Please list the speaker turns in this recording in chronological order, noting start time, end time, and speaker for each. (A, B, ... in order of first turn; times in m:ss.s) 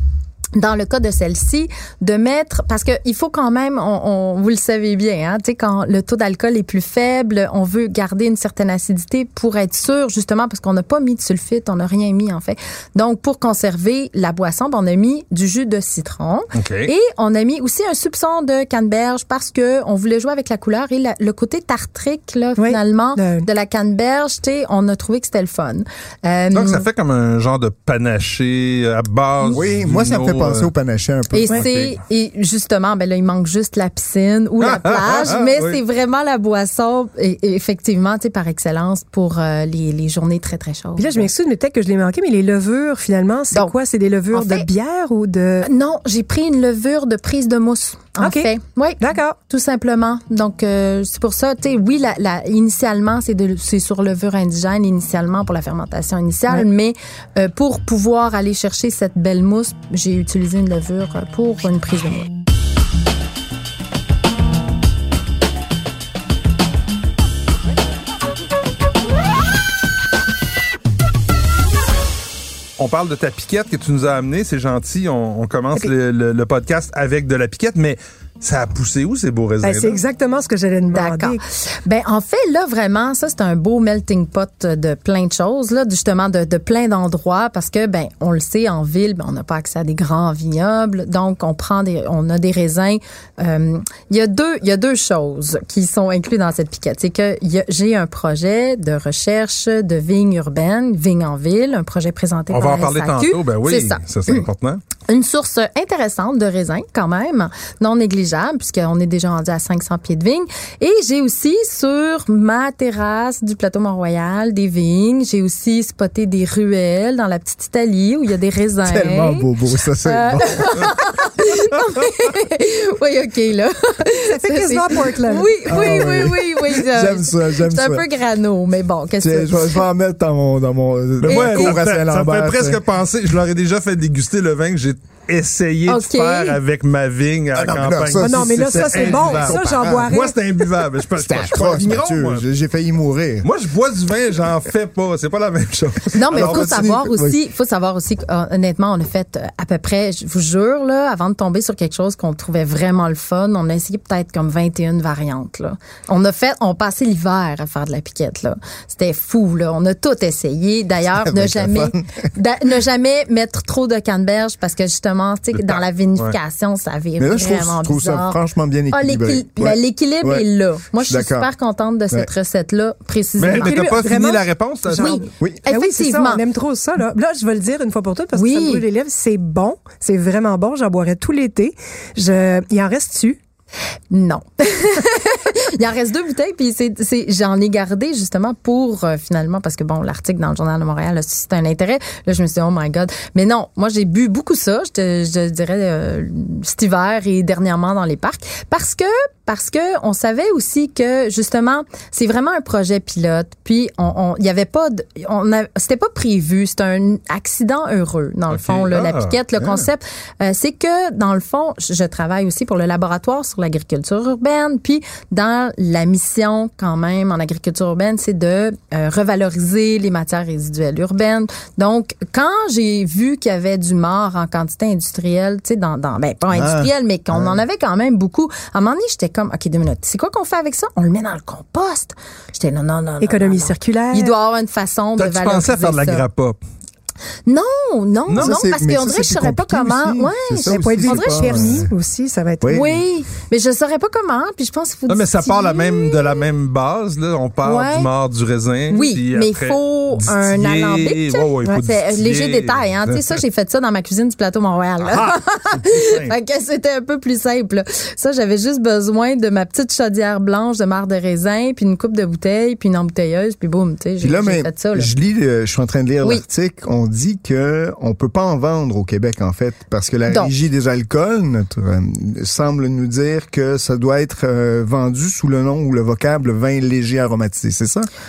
0:00.6-0:26.8 A
0:16.5-0:16.9 B
0:22.6-0:23.5 C
0:26.5-0:30.7 B
0:29.5-0:31.6 D
0:31.3-0:41.3 A
0:31.5-0:32.0 B
0:34.6-0:35.8 B
0:41.0-0:45.7 C
0:44.3-0:44.7 A
0:45.6-1:02.3 A
0:48.2-0:49.4 C
1:12.8-1:20.0 B
1:19.6-1:21.4 C
1:20.9-1:44.4 A
1:42.5-1:44.8 B
1:45.1-1:59.5 A
1:58.8-2:00.9 D
2:00.0-2:09.8 A
2:04.3-2:06.2 C
2:05.6-2:08.0 D
2:09.2-2:12.8 D
2:11.2-2:22.4 B
2:11.3-2:11.8 A
2:15.9-2:16.6 A
2:17.5-2:20.2 D
2:18.2-2:20.3 C
2:21.2-2:23.5 D
2:23.4-2:26.9 B
2:26.1-2:48.4 A
2:26.3-2:27.4 D
2:41.2-2:42.2 D
2:45.6-2:46.4 B
2:47.2-2:50.4 D
2:48.9-2:53.9 A
2:51.0-2:51.5 D
2:53.4-2:55.2 B
2:53.5-3:03.4 C
2:55.0-2:56.4 A
2:58.3-2:58.8 A
3:04.1-3:56.2 A
3:28.5-3:29.8 B
3:46.5-3:47.6 D
3:53.2-3:54.4 C
3:55.2-3:56.6 B
3:57.5-4:01.8 A
3:58.3-3:58.5 B
3:58.3-4:01.9 D
4:00.7-4:02.9 C
4:02.6-4:03.0 D
4:02.7-4:06.4 A
4:05.1-4:13.4 B
4:07.6-4:08.1 A
4:08.9-4:25.1 A
4:15.0-4:16.3 B
4:24.2-4:38.1 D
4:30.3-4:30.5 A